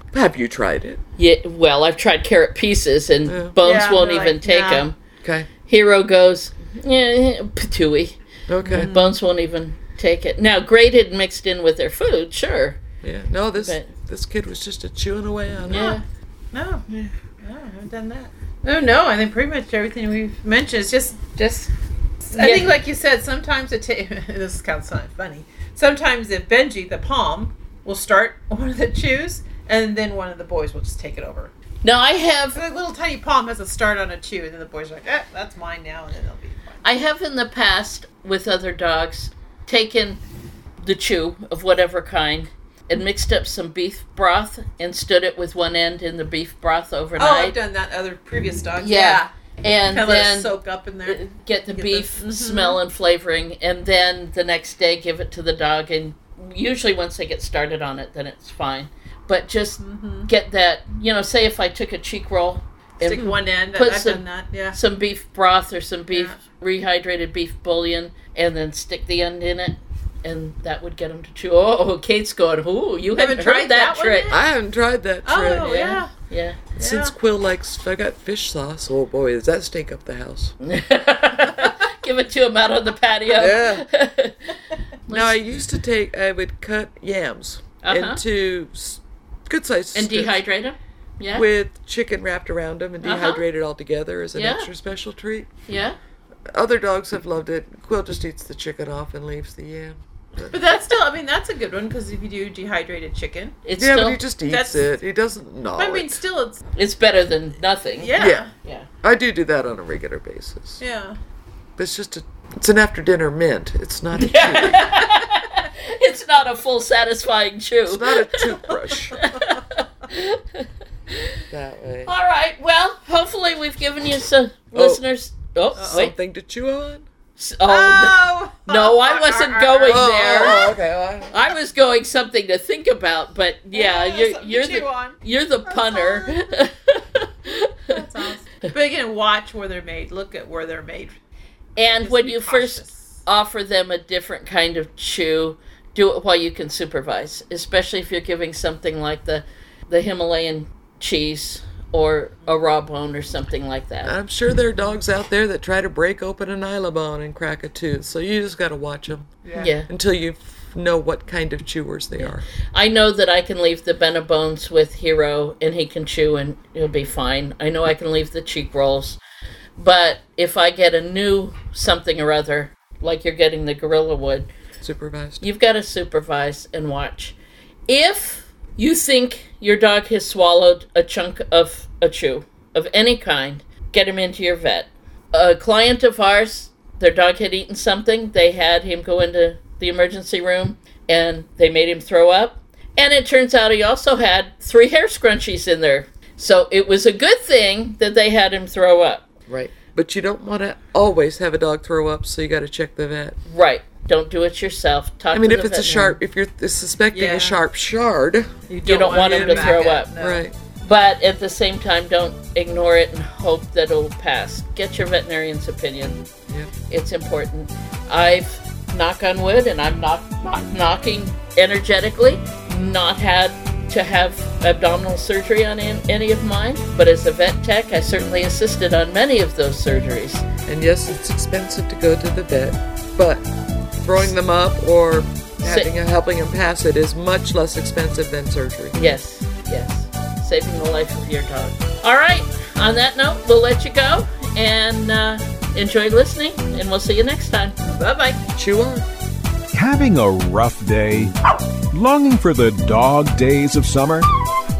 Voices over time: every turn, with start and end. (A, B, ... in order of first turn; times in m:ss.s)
0:00.1-0:01.0 A
0:01.2-0:05.0 B
0:03.2-0:03.6 A
0:03.6-0:04.9 C
0:05.2-0:05.5 A
0:05.7-0:12.8 B
0:08.5-0:08.9 A
0:08.6-0:09.1 C
0:13.0-0:16.0 A
0:13.5-0:13.9 B
0:15.7-0:16.0 B
0:15.7-0:16.0 C
0:16.5-0:16.8 C
0:17.4-0:21.7 C
0:22.2-0:31.5 C
0:22.4-0:22.7 B
0:31.8-0:32.6 B
0:32.5-0:36.8 C
0:36.8-0:40.2 B
0:40.8-0:47.6 B
0:47.2-0:49.3 C
0:48.8-1:14.4 B
0:49.8-0:52.8 C
0:59.8-1:00.3 C
1:03.0-1:04.8 C
1:06.1-1:06.4 C
1:13.1-1:14.4 C
1:14.3-1:16.0 A
1:15.2-1:16.1 C
1:15.5-1:16.6 B
1:16.8-1:17.1 C
1:16.8-1:20.5 A
1:20.6-1:25.5 B
1:23.3-1:23.8 A
1:25.1-1:30.4 A
1:27.8-1:28.2 B
1:29.9-1:31.5 B
1:31.3-1:35.5 A
1:33.0-1:33.4 B
1:34.3-1:34.7 B
1:35.7-1:36.0 B
1:36.5-1:40.6 A
1:40.5-1:43.6 C
1:43.6-1:44.2 B
1:43.8-1:46.2 A
1:44.5-1:44.9 C
1:45.8-1:46.6 C
1:46.8-1:48.9 B
1:48.0-1:48.5 C
1:48.2-1:48.5 A
1:49.0-1:50.8 A
1:50.8-1:51.2 C
1:51.8-1:54.8 A
1:54.1-1:58.5 B
1:54.8-1:55.0 C
1:57.8-1:59.2 A
1:58.7-1:59.6 C
1:59.1-2:01.4 B
2:01.5-2:02.1 A
2:02.0-2:06.1 B
2:04.7-2:05.0 A
2:05.8-2:06.0 C
2:05.8-2:07.0 A
2:07.4-2:10.6 B
2:07.7-2:10.8 C
2:09.9-2:11.3 A
2:11.3-2:17.9 B
2:13.7-2:16.4 C
2:17.9-2:21.2 C
2:21.8-2:34.1 B
2:21.8-2:23.2 C
2:34.0-2:39.3 A
2:39.4-2:39.7 C
2:39.6-2:39.9 B
2:39.9-2:42.4 A
2:42.2-2:49.2 B
2:49.8-2:54.5 B
2:54.8-2:55.4 A
2:55.4-2:57.4 B
2:57.9-3:19.3 B
3:19.5-3:23.4 A
3:23.5-3:26.2 B
3:25.3-3:30.6 A
3:27.1-3:27.6 C
3:28.7-3:30.4 C
3:28.8-3:30.1 B
3:30.8-3:36.3 B
3:36.9-3:50.5 B
3:50.6-3:53.5 A
3:54.0-3:59.0 A
3:55.6-3:55.9 B
3:58.9-4:08.4 B
4:08.5-4:09.0 A
4:09.7-4:11.3 D
4:11.9-4:14.3 D